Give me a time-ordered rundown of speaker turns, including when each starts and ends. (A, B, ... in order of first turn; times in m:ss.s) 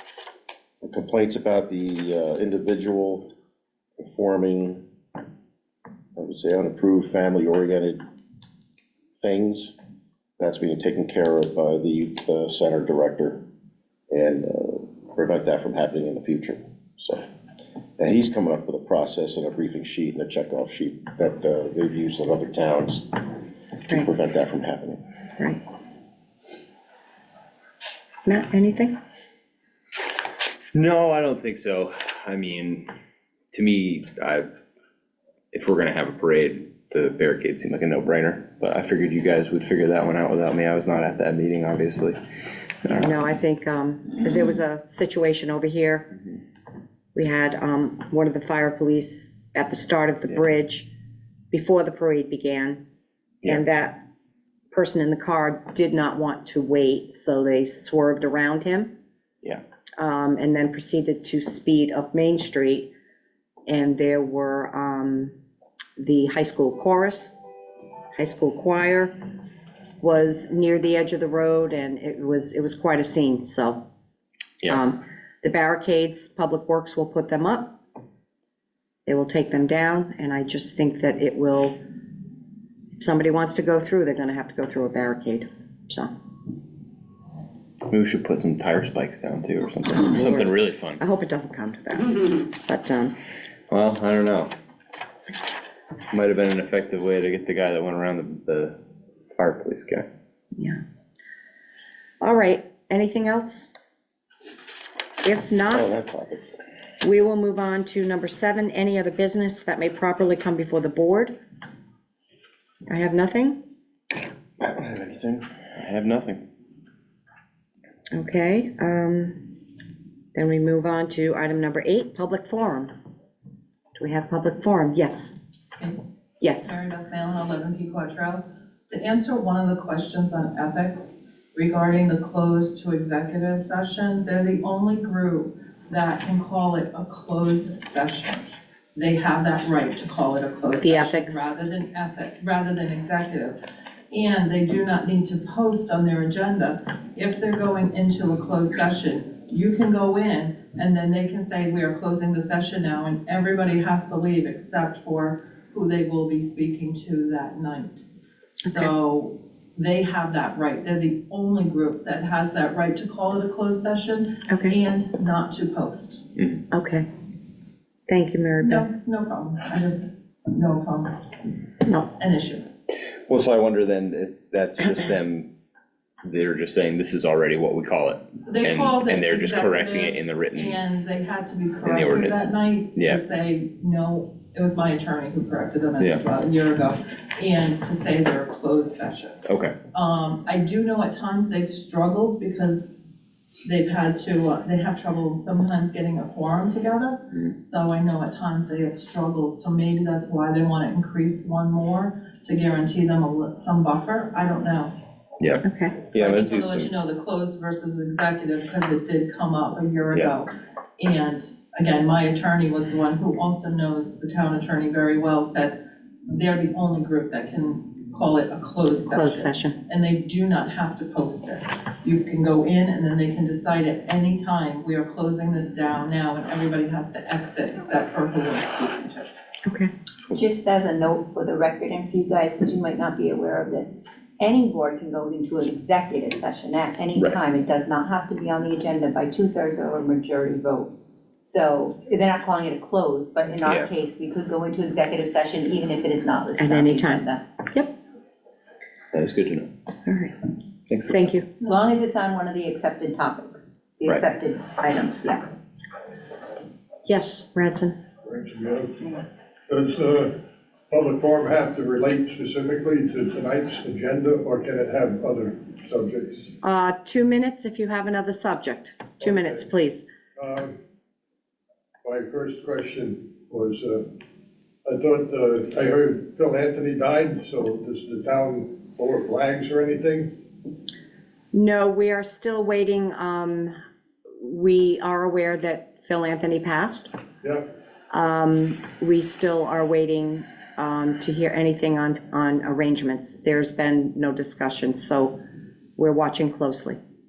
0:00.8-0:03.3 A
0:04.0-0:04.8 A
0:06.2-0:08.0 A
0:09.2-0:09.7 A
0:10.4-0:13.4 A
0:14.1-0:17.2 A
0:18.0-0:23.2 A
0:23.9-0:25.0 A
0:28.2-0:29.0 B
0:30.7-0:32.9 C
0:33.5-0:34.4 C
0:35.5-0:42.2 C
0:42.8-0:43.1 C
0:42.9-0:46.1 B
0:47.1-0:50.9 B
0:51.5-0:52.8 B
0:53.4-0:54.0 B
0:54.7-0:58.9 B
1:00.0-1:02.9 B
1:03.7-1:05.4 B
1:06.0-1:07.4 B
1:08.2-1:09.1 B
1:10.0-1:13.8 B
1:14.7-1:17.8 B
1:19.0-1:21.8 B
1:23.0-1:26.1 B
1:27.9-1:31.0 C
1:30.0-1:33.1 B
1:33.7-1:34.5 C
1:36.1-1:38.7 C
1:39.4-1:40.0 C
1:42.2-1:43.7 B
1:45.2-1:45.9 B
1:45.7-1:46.4 A
1:47.0-1:51.3 B
1:52.9-1:53.6 B
1:54.6-1:55.4 A
1:55.8-1:56.4 C
1:58.1-1:59.5 B
2:00.3-2:02.9 B
2:04.0-2:05.4 B
2:06.4-2:06.8 B
2:06.6-2:23.6 D
2:20.8-2:21.5 B
2:24.1-2:38.0 D
2:38.6-2:46.2 D
2:44.5-2:44.7 B
2:46.7-2:47.1 B
2:48.1-2:48.9 B
2:48.6-2:51.3 D
2:51.8-2:52.1 B
2:52.2-2:52.6 D
2:53.3-2:55.5 C
2:56.2-3:00.8 C
2:58.4-3:09.4 D
3:01.8-3:03.2 C
3:09.5-3:09.8 C
3:09.9-3:13.0 D
3:13.6-3:25.0 D
3:25.4-3:26.9 C
3:25.6-3:25.9 B
3:26.1-3:49.3 D
3:39.1-3:39.8 B
3:50.3-4:00.9 E
4:01.4-4:07.4 E
4:03.6-4:03.9 C
4:06.6-4:07.9 B
4:09.1-4:09.7 C
4:10.0-4:10.4 B
4:10.9-4:11.1 C
4:11.1-4:11.5 B
4:11.6-4:15.6 E
4:17.0-4:18.0 B
4:18.2-4:18.9 F
4:19.7-4:20.3 F
4:20.9-4:26.5 F
4:26.6-4:30.0 B
4:29.2-4:29.6 F
4:30.4-4:30.7 F
4:32.0-4:34.0 F
4:34.9-4:40.3 F
4:41.5-4:43.7 B
4:44.4-4:47.1 B
4:48.1-4:55.4 B
4:56.0-4:57.0 B